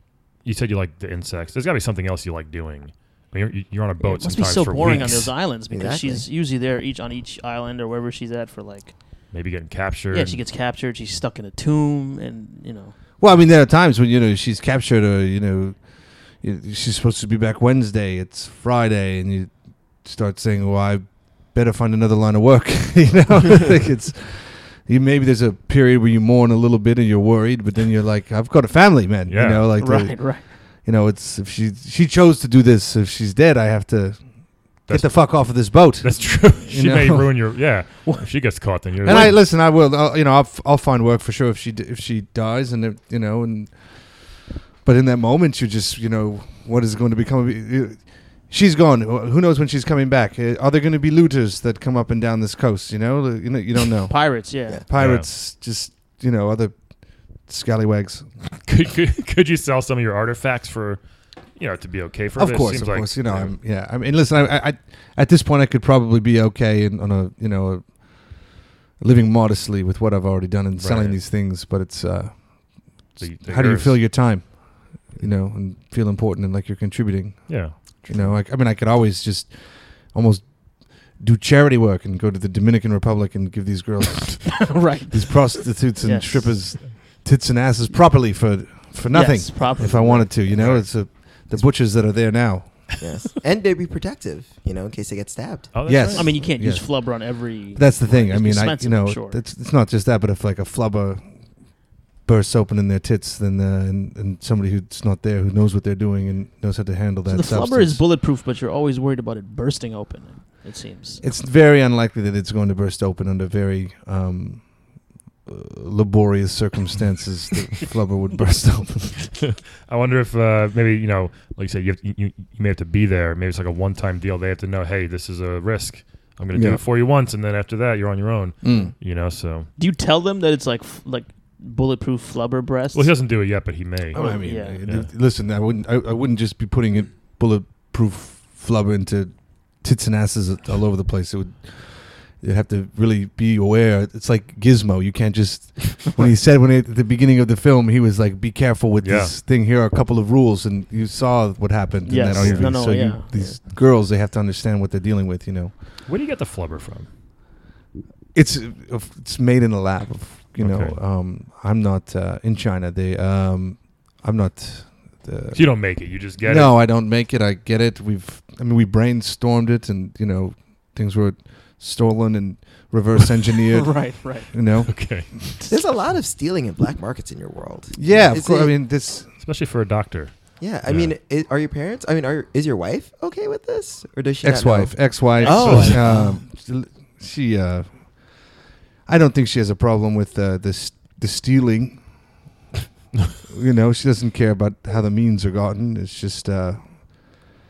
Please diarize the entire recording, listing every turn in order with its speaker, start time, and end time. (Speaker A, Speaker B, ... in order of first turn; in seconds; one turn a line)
Speaker A: 0.4-5.4
Speaker B: 4.0-9.3
Speaker C: 5.7-6.2
Speaker A: 9.3-10.4
Speaker B: 10.1-12.9
Speaker D: 13.2-37.6
Speaker A: 29.3-29.7
Speaker B: 29.8-30.4
Speaker A: 34.9-39.4
Speaker B: 38.0-39.3
Speaker D: 39.0-58.3
Speaker B: 54.1-54.8
Speaker A: 54.9-55.2
Speaker A: 58.5-63.5
Speaker D: 62.4-92.9
Speaker A: 70.7-71.2
Speaker A: 73.2-74.0
Speaker A: 77.5-78.4
Speaker B: 84.6-86.9
Speaker B: 89.1-90.6
Speaker A: 90.5-91.1
Speaker C: 93.0-95.7
Speaker A: 95.7-96.4
Speaker D: 95.8-108.0
Speaker B: 96.0-99.4
Speaker B: 107.2-111.2
Speaker D: 111.2-119.4
Speaker A: 119.8-129.7
Speaker D: 126.5-126.8
Speaker D: 128.6-128.9
Speaker B: 129.8-133.1
Speaker A: 132.9-135.1
Speaker D: 134.1-155.8
Speaker B: 134.1-134.8
Speaker A: 149.0-149.3
Speaker B: 152.1-153.6
Speaker A: 152.3-152.9
Speaker A: 156.0-157.1
Speaker D: 158.3-175.4
Speaker A: 160.6-161.0
Speaker A: 165.5-166.8
Speaker B: 173.7-174.5
Speaker A: 174.9-175.4
Speaker C: 175.7-178.7
Speaker D: 177.9-179.3
Speaker A: 179.3-181.1
Speaker C: 180.6-186.4
Speaker D: 184.4-192.4
Speaker B: 185.4-186.3
Speaker A: 185.5-186.0
Speaker D: 193.5-197.5